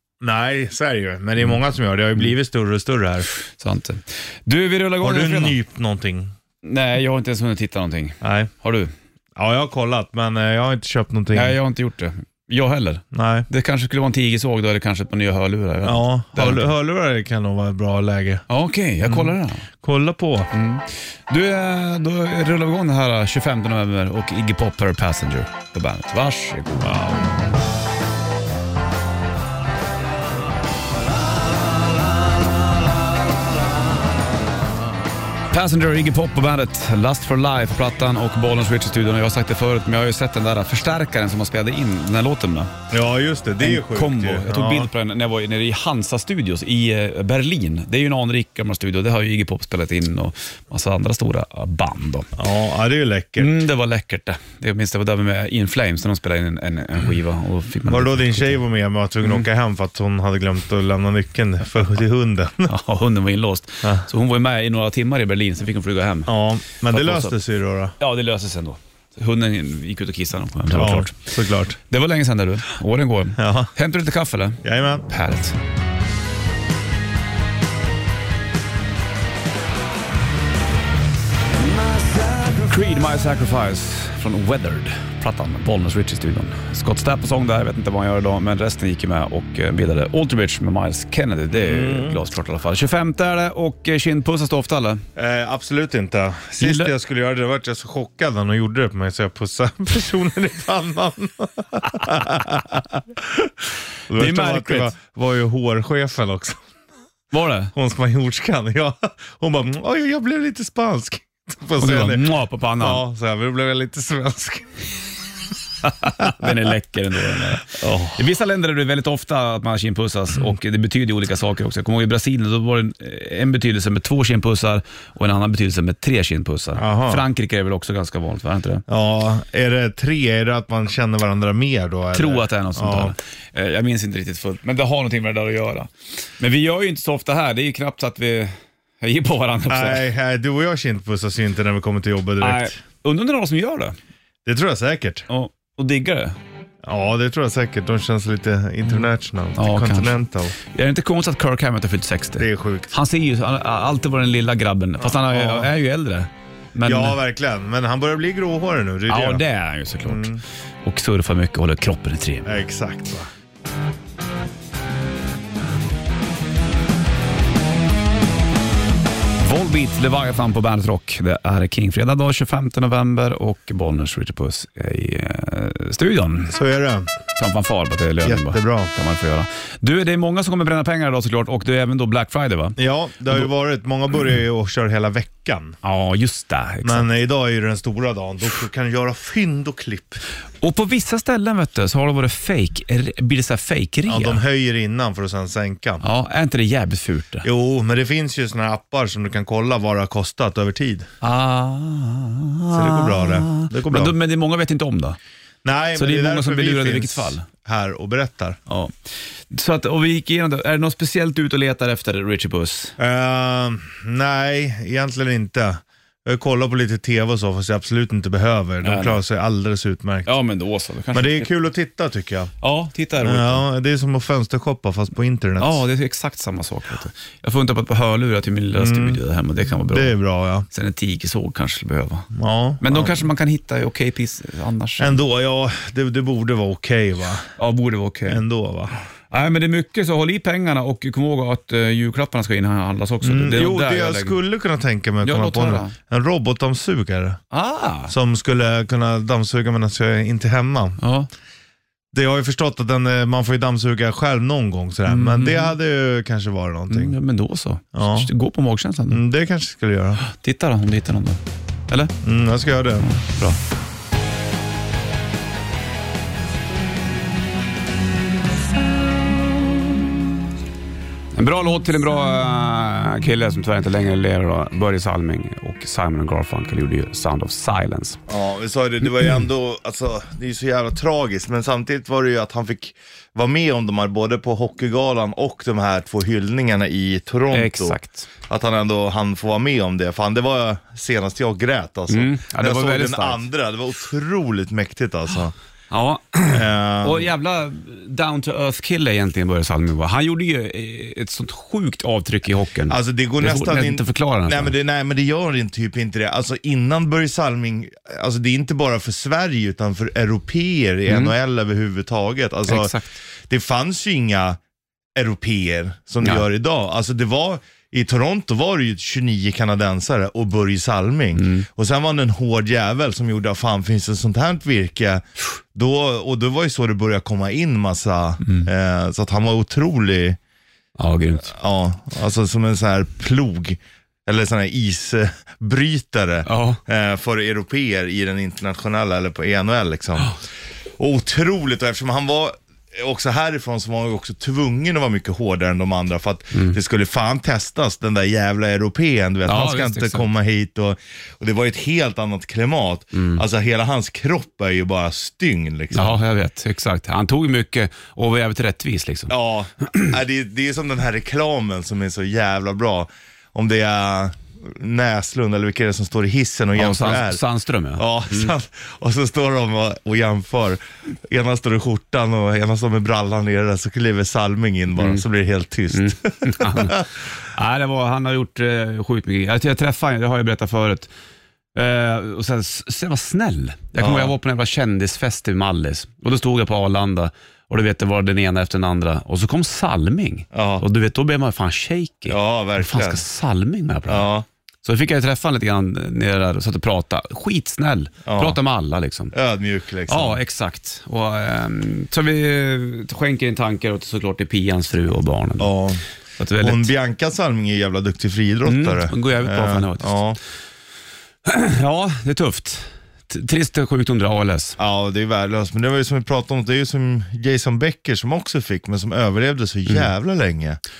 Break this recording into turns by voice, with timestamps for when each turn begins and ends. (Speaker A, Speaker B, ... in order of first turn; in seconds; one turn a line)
Speaker A: 0.2-3.3
Speaker B: 3.5-5.6
Speaker A: 5.0-6.3
Speaker B: 6.6-8.9
Speaker A: 8.2-8.5
Speaker A: 9.3-11.6
Speaker B: 11.3-16.7
Speaker A: 13.1-13.5
Speaker A: 15.8-18.4
Speaker B: 18.5-19.7
Speaker A: 19.0-20.5
Speaker B: 20.5-27.0
Speaker A: 26.8-27.3
Speaker B: 35.5-42.7
Speaker A: 42.9-44.9
Speaker B: 43.6-52.3
Speaker A: 52.4-53.5
Speaker B: 53.4-58.6
Speaker A: 57.9-62.7
Speaker B: 62.7-66.3
Speaker A: 66.3-67.9
Speaker B: 66.9-67.4
Speaker B: 68.0-71.2
Speaker A: 70.7-71.8
Speaker B: 71.8-75.6
Speaker A: 73.4-73.7
Speaker A: 74.6-75.1
Speaker B: 81.6-95.0
Speaker A: 91.5-92.2
Speaker A: 95.2-103.5
Speaker B: 96.6-96.9
Speaker A: 104.1-106.6
Speaker B: 104.1-104.9
Speaker B: 107.3-107.7
Speaker A: 107.7-114.7
Speaker B: 111.8-113.0
Speaker B: 115.8-128.8
Speaker A: 117.7-118.2
Speaker A: 126.8-127.2
Speaker A: 128.9-133.1
Speaker B: 132.1-140.1
Speaker A: 139.7-142.8
Speaker B: 142.4-143.9
Speaker A: 144.4-145.2
Speaker B: 145.3-146.4
Speaker A: 146.8-150.5
Speaker B: 149.6-157.2
Speaker A: 152.4-152.9
Speaker A: 155.0-155.7
Speaker A: 156.8-159.4
Speaker B: 159.1-160.3
Speaker A: 160.0-160.4
Speaker B: 160.8-162.5
Speaker A: 162.4-163.3
Speaker B: 169.4-176.5
Speaker A: 176.5-177.1
Speaker B: 177.4-182.8
Speaker A: 178.2-178.9
Speaker A: 182.8-185.8
Speaker B: 185.8-187.1
Speaker A: 186.8-190.2
Speaker B: 190.6-194.4
Speaker A: 194.1-196.0
Speaker B: 196.0-197.5
Speaker A: 197.4-201.1
Speaker B: 201.2-205.2
Speaker A: 202.7-204.1
Speaker A: 205.6-208.6
Speaker B: 206.0-207.5
Speaker B: 208.7-208.9
Speaker B: 209.5-212.9
Speaker A: 213.0-220.3
Speaker B: 218.8-219.2
Speaker B: 220.2-221.5
Speaker A: 221.1-222.5
Speaker B: 222.6-223.6
Speaker A: 223.2-225.8
Speaker B: 225.6-230.1
Speaker A: 228.7-229.2
Speaker A: 229.8-230.7
Speaker B: 230.7-232.3
Speaker A: 232.3-233.2
Speaker B: 232.8-235.2
Speaker A: 235.0-237.5
Speaker B: 237.6-238.4
Speaker A: 238.3-238.9
Speaker B: 239.3-244.4
Speaker A: 243.2-247.4
Speaker B: 245.2-245.9
Speaker B: 247.5-248.1
Speaker A: 248.1-251.0
Speaker B: 251.0-251.3
Speaker A: 252.1-257.1
Speaker B: 255.1-255.7
Speaker B: 256.9-259.2
Speaker A: 257.9-258.3
Speaker A: 259.1-260.2
Speaker B: 260.2-262.1
Speaker A: 262.2-263.1
Speaker B: 263.1-263.6
Speaker B: 271.3-278.2
Speaker A: 278.3-288.0
Speaker B: 287.5-288.3
Speaker A: 288.5-295.5
Speaker B: 292.1-293.4
Speaker B: 295.9-304.7
Speaker A: 296.5-297.2
Speaker A: 302.9-314.6
Speaker B: 311.1-311.3
Speaker B: 312.7-313.1
Speaker A: 315.1-330.4
Speaker B: 321.4-321.7
Speaker B: 331.0-331.5
Speaker A: 331.5-340.4
Speaker B: 336.4-336.8
Speaker A: 341.0-356.2
Speaker B: 349.5-350.3
Speaker B: 353.1-353.4
Speaker B: 355.9-359.3
Speaker A: 359.3-367.4
Speaker B: 366.8-368.5
Speaker A: 367.9-377.1
Speaker B: 375.0-375.2
Speaker B: 375.9-381.1
Speaker B: 381.7-394.3
Speaker A: 384.0-384.3
Speaker A: 390.5-390.8
Speaker A: 392.3-393.2
Speaker A: 394.1-394.4
Speaker B: 394.8-399.3
Speaker A: 398.2-398.6
Speaker A: 399.3-400.4
Speaker B: 400.1-405.7
Speaker A: 405.6-406.0
Speaker B: 406.4-406.9
Speaker A: 406.6-410.4
Speaker B: 408.7-410.2
Speaker B: 411.4-414.8
Speaker A: 414.8-420.8